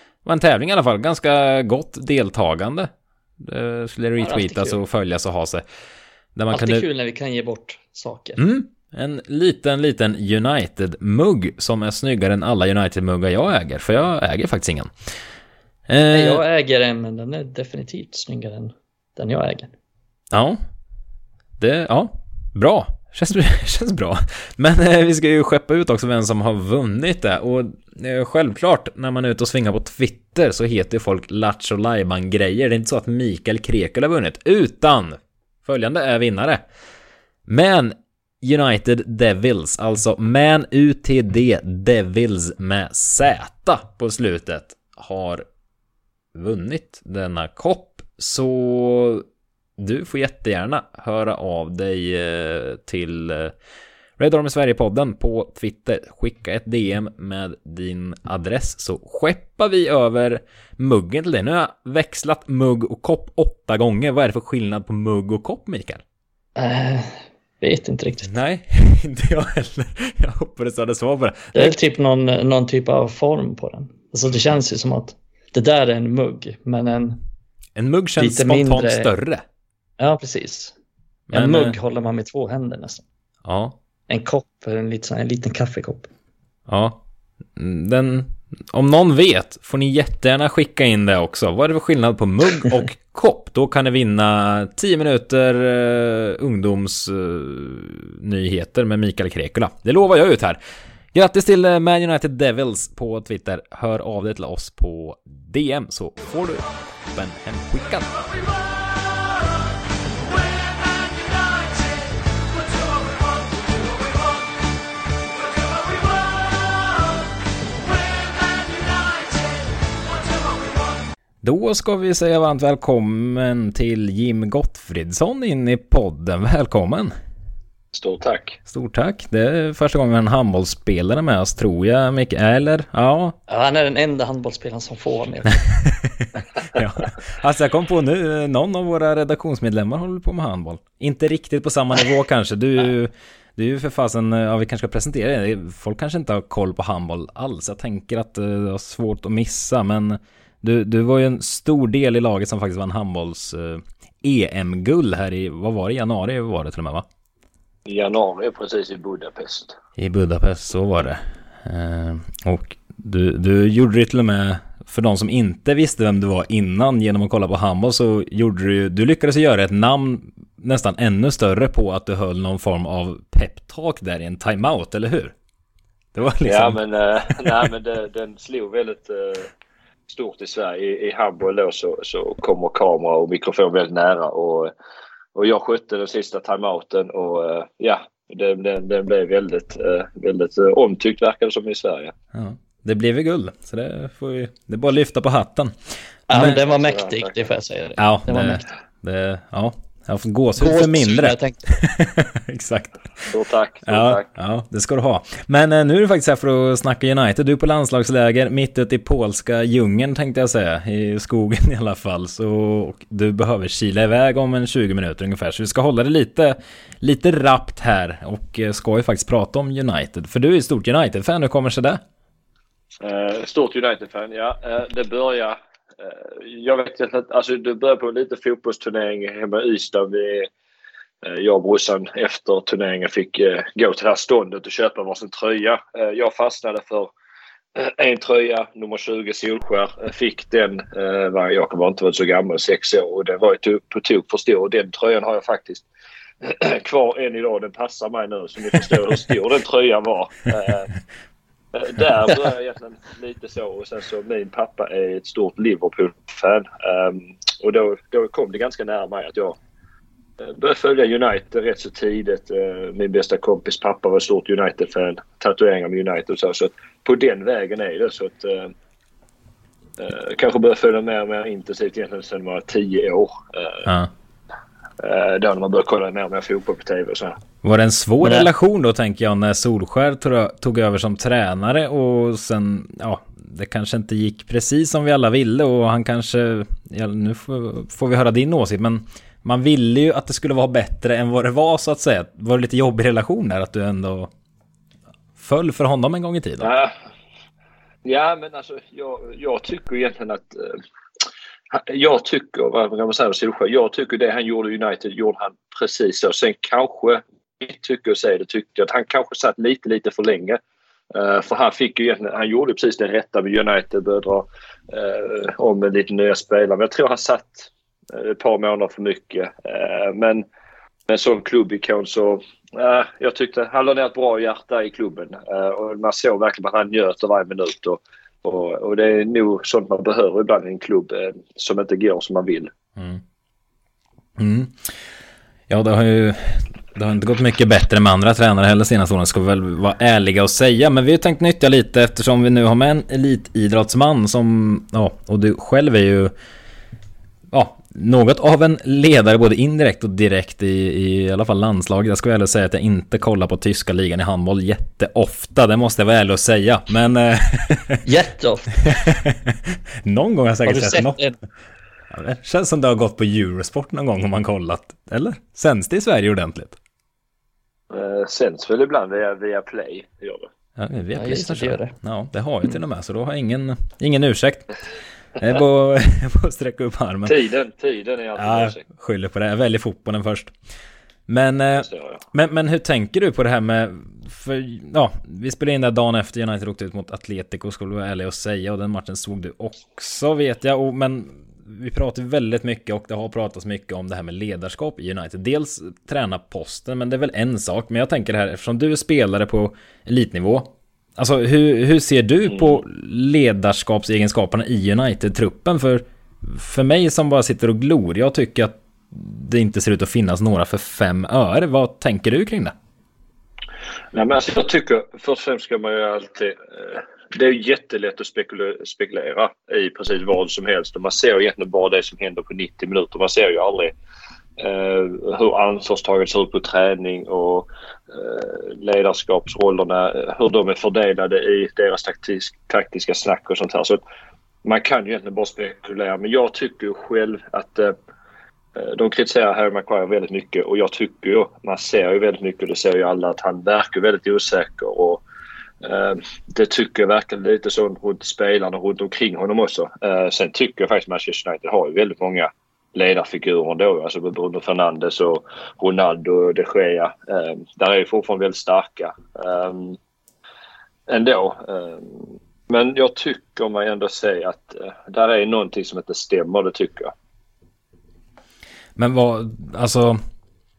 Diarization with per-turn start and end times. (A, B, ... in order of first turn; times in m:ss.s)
0:00.2-0:05.6 A
0:04.2-0:04.8 B
0:06.4-0:06.8 A
0:06.5-0:08.4 B
0:08.4-0:14.9 A
0:15.9-0:16.4 A
0:16.1-0:19.7 B
0:20.3-0:20.6 A
0:21.6-0:36.6 A
0:37.5-0:45.4 A
0:46.3-0:49.3 A
0:49.8-0:53.5 A
0:54.2-1:06.0 A
1:06.6-1:08.4 B
1:08.3-1:11.8 A
1:11.5-1:17.2 B
1:17.8-1:19.4 A
1:18.2-1:19.1 B
1:20.0-1:20.8 B
1:21.3-1:21.8 A
1:21.3-1:23.0 B
1:23.4-1:23.8 A
1:24.1-1:26.1 B
1:26.7-1:27.0 A
1:27.6-1:40.6 A
1:41.1-1:48.4 A
2:01.4-2:07.1 A
2:07.9-2:08.6 C
2:08.7-2:13.4 A
2:13.5-2:15.6 B
2:15.8-2:37.1 A
2:37.8-2:39.8 C
2:40.0-2:55.4 A
2:56.2-2:56.8 A
2:56.5-2:59.5 C
2:57.4-2:57.7 A
3:00.1-3:04.7 C
3:05.4-3:12.1 C
3:12.3-3:15.7 A
3:16.3-3:18.6 B
3:16.3-3:16.6 A
3:16.6-3:17.3 C
3:18.0-3:23.3 A
3:20.6-3:21.8 B
3:23.3-3:24.3 C
3:23.9-3:42.0 A
3:43.0-3:50.5 C
3:51.2-3:57.1 C
3:57.8-4:05.8 C
4:06.4-4:10.9 C
4:11.7-4:19.6 C
4:20.4-4:28.7 C
4:30.0-4:33.9 C
4:33.9-4:34.1 A
4:35.0-4:37.4 C
4:37.6-4:54.3 A
4:38.2-4:38.5 B
4:55.4-4:56.7 A
4:56.6-4:56.9 C
4:58.0-5:00.8 C
5:01.7-5:10.6 C
5:11.1-5:20.4 C
5:21.1-5:32.7 C
5:33.0-5:33.2 A
5:34.4-5:34.9 A
5:35.7-5:46.3 A
5:47.5-5:58.0 A
5:58.0-5:58.8 B
5:58.8-6:01.2 A
6:00.6-6:01.4 B
6:02.1-6:06.8 A
6:07.9-6:10.5 C
6:10.8-6:14.8 A
6:11.2-6:11.9 B
6:15.4-6:17.3 A
6:17.3-6:18.8 C
6:18.4-6:20.5 A
6:21.3-6:52.7 A
6:21.7-6:22.2 C
6:54.1-7:03.9 C
7:04.6-7:14.0 C
7:14.6-7:17.9 C
7:18.8-7:25.2 C
7:25.8-7:40.0 C
7:41.1-7:47.1 C
7:49.0-7:50.2 A